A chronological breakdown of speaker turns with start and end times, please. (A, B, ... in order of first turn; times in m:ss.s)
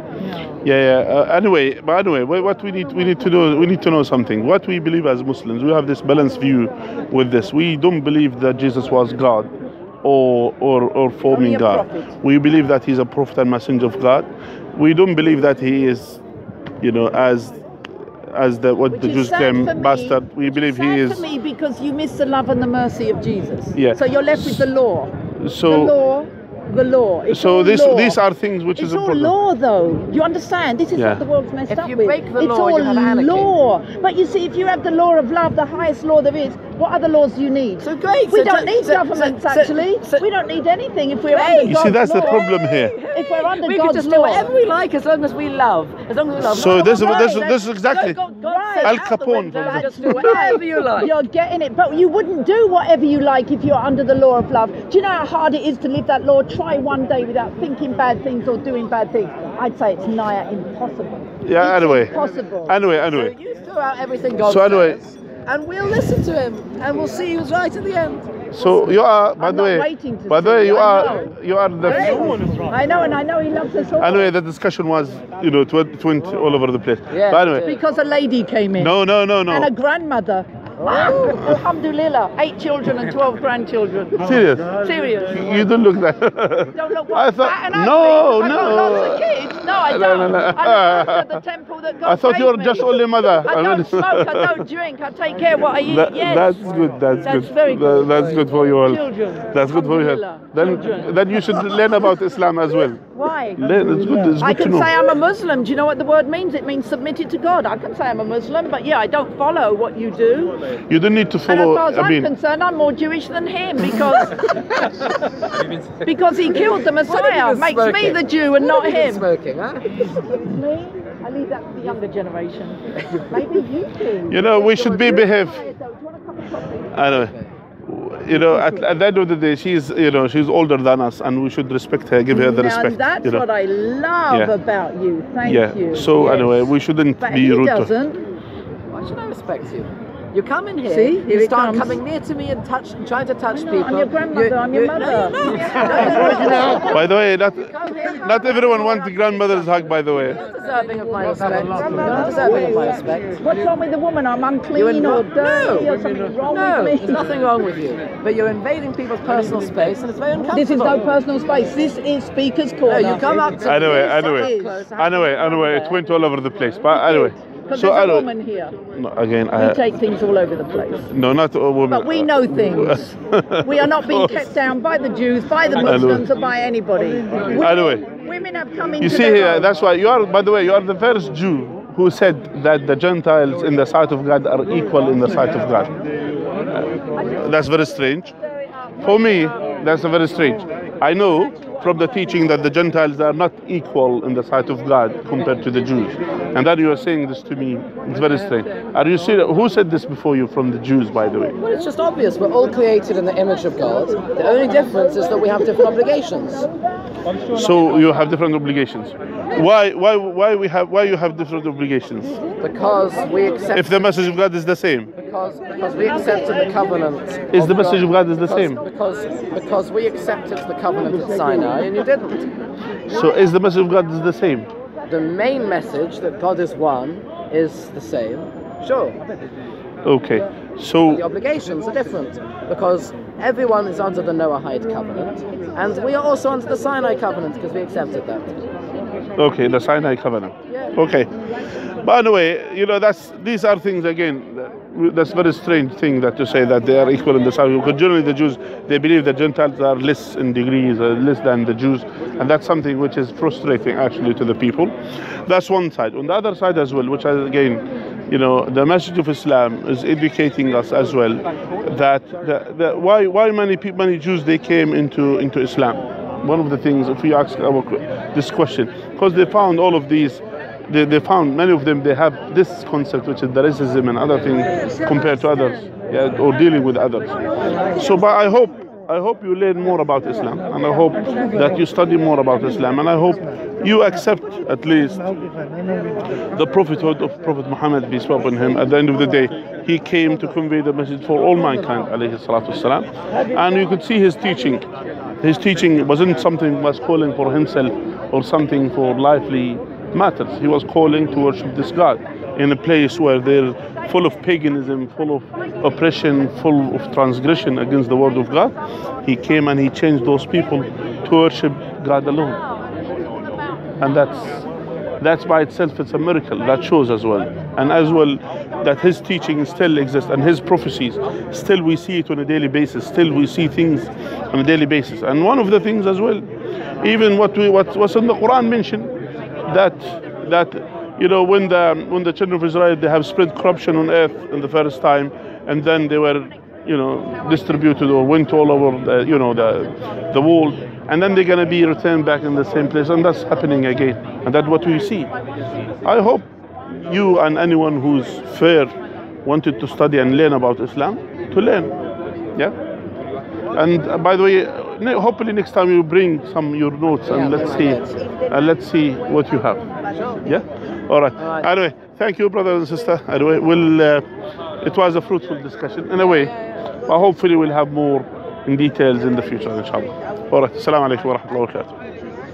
0:00.2-0:00.6 A
0:00.6-0:09.5 B
0:10.0-0:16.2 B
0:11.3-0:12.1 A
0:16.8-0:21.2 B
0:18.9-0:25.1 A
0:23.8-0:24.7 B
0:25.4-0:25.9 B
0:25.7-0:28.2 A
0:27.3-0:29.4 B
0:28.8-0:44.5 A
0:31.0-0:31.2 B
0:31.7-0:33.5 C
0:37.8-0:40.3 C
0:41.3-0:51.1 C
0:41.6-0:43.0 B
0:46.4-0:48.2 B
0:46.4-1:02.8 A
0:48.8-0:50.6 B
1:01.4-1:03.4 B
1:03.0-1:08.3 C
1:04.4-1:05.0 B
1:08.5-1:12.4 B
1:08.6-1:14.3 A
1:11.9-1:12.6 C
1:14.0-1:17.7 B
1:17.1-1:17.8 C
1:17.5-1:25.7 A
1:18.8-1:19.7 B
1:20.8-1:21.5 C
1:24.2-1:24.8 B
1:25.3-1:31.4 B
1:26.7-1:36.7 A
1:32.0-1:34.6 B
1:35.8-1:43.0 B
1:37.2-1:42.2 A
1:42.8-1:50.6 A
1:43.6-1:44.9 B
1:50.9-1:52.3 B
1:51.5-1:54.6 A
1:55.5-2:00.2 C
1:56.0-1:59.3 A
1:59.9-2:07.0 A
2:03.1-2:03.4 C
2:04.3-2:05.7 B
2:06.9-2:07.3 B
2:07.1-2:07.5 C
2:07.8-2:13.4 B
2:12.3-2:16.7 A
2:15.4-2:17.9 B
2:17.2-2:18.2 A
2:18.9-2:29.1 C
2:20.9-2:22.0 A
2:23.5-2:27.0 A
2:26.9-2:30.4 B
2:30.2-2:33.4 C
2:31.5-2:37.3 A
2:34.7-2:35.9 C
2:36.5-2:41.1 C
2:40.5-2:44.8 A
2:42.9-2:46.0 C
2:43.6-2:48.3 B
2:46.9-2:48.8 A
2:48.9-2:49.8 B
2:49.5-2:51.1 A
2:51.1-2:54.5 B
2:51.9-2:59.7 A
2:55.8-2:56.3 B
2:57.5-2:58.0 B
2:59.0-3:05.9 B
3:06.7-3:08.4 B
3:09.0-3:21.6 B
3:21.6-3:26.7 C
3:27.5-3:32.4 B
3:32.6-3:34.0 C
3:33.7-3:35.1 B
3:35.2-3:42.5 C
3:37.5-3:38.8 B
3:43.1-3:44.7 B
3:45.0-3:49.2 C
3:50.0-3:51.2 B
3:51.1-3:58.6 C
3:59.4-4:01.3 B
4:00.7-4:01.0 C
4:02.0-4:45.3 B
4:46.5-4:54.9 B
4:55.4-5:12.6 B
5:14.0-5:14.7 B
5:15.2-5:26.5 B
5:27.0-5:29.1 B
5:29.7-5:45.3 B
5:46.0-5:48.9 B
5:49.4-5:51.9 B
5:53.7-5:59.8 B
5:57.2-5:58.3 C
6:00.4-6:04.2 B
6:01.4-6:01.7 C
6:04.8-6:06.5 B
6:07.1-6:12.0 B